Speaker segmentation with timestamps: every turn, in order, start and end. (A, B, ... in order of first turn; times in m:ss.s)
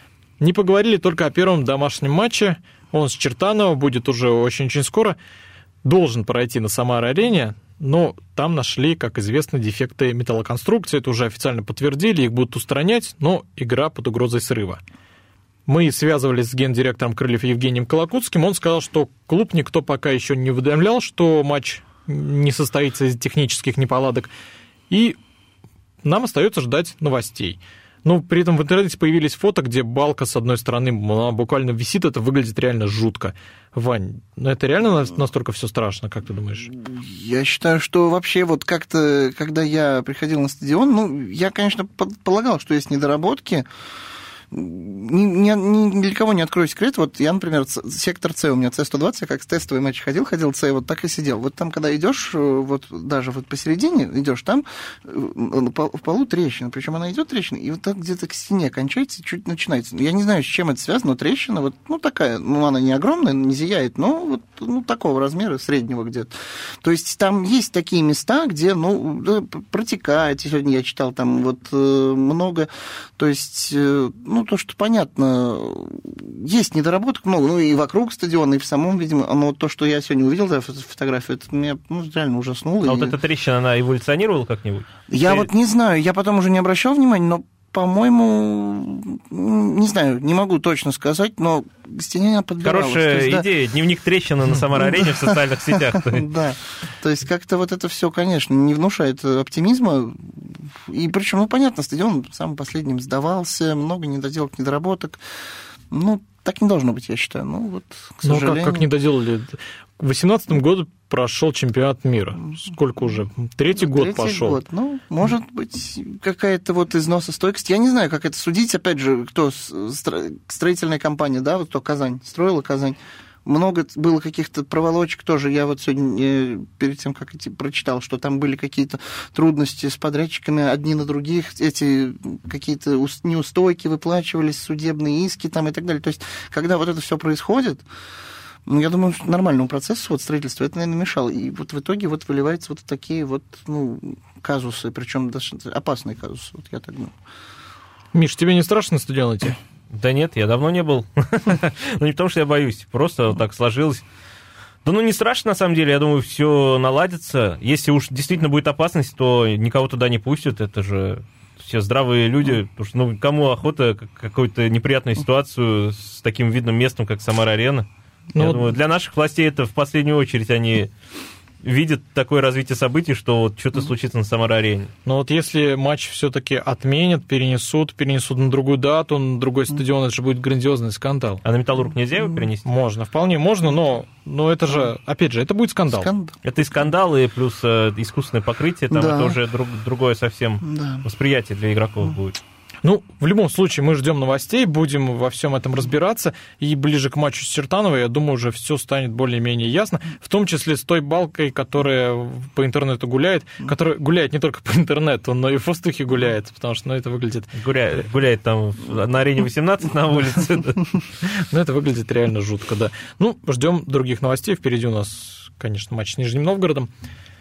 0:00.4-0:05.2 A
0:05.8-0:14.8 A
0:15.7-0:24.3 A
0:24.9-0:25.2 A
0:26.0-0:36.7 A
0:36.8-0:43.7 B
0:44.5-1:23.2 B
1:22.8-1:25.5 C
1:25.1-1:33.4 B
1:32.6-1:36.3 C
1:34.8-1:45.2 B
1:45.9-1:48.8 B
1:48.2-1:54.6 A
1:53.8-2:17.8 B
2:18.6-2:27.1 B
2:28.1-2:29.6 A
2:29.9-2:34.0 C
2:34.8-2:50.9 C
2:48.3-2:48.7 A
2:51.6-2:54.9 C
2:55.0-3:01.4 A
3:01.4-3:02.6 C
3:02.6-3:06.1 A
3:05.9-3:06.4 B
3:06.4-3:12.4 C
3:08.9-3:09.4 B
3:10.6-3:11.0 B
3:12.8-3:27.5 A
3:27.5-3:31.0 C
3:31.2-3:36.9 A